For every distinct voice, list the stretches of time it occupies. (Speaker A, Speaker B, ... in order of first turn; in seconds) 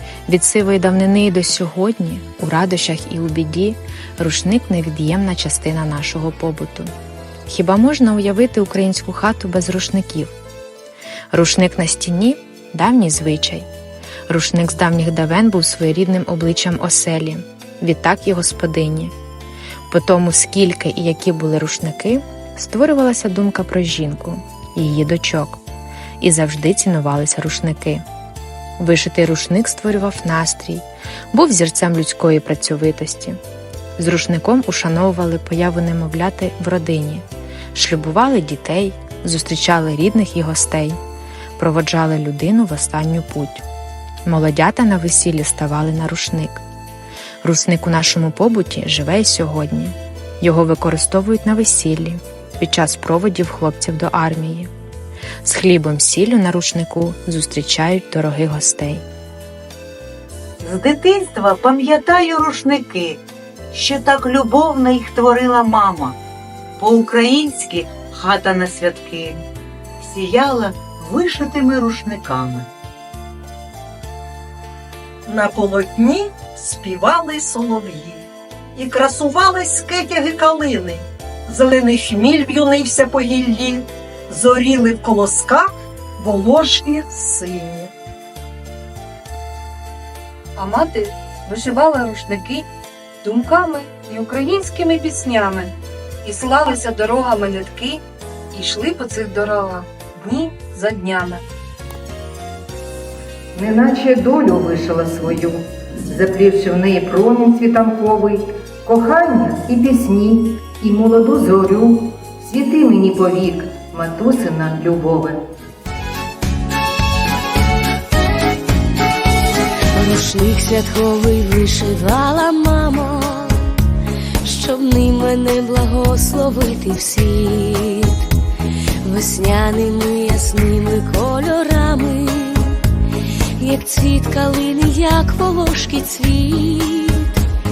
Speaker A: 0.3-6.9, 7.5-10.3, 11.3-13.7, 14.3-19.1, 19.9-25.6, 26.2-28.0, 28.8-33.4, 34.0-41.0, 41.6-43.6, 44.2-46.6, 47.4-54.7, 55.4-59.0
Speaker B: 60.6-63.2, 63.7-66.2, 66.8-69.4, 70.0-72.7
Speaker C: 75.3-87.9
Speaker D: 90.6-92.7, 93.2-95.7, 96.2-98.0, 98.5-101.4
Speaker E: 103.5-115.4
Speaker F: 119.9-123.8, 124.4-128.3, 129.0-132.8, 133.6-137.4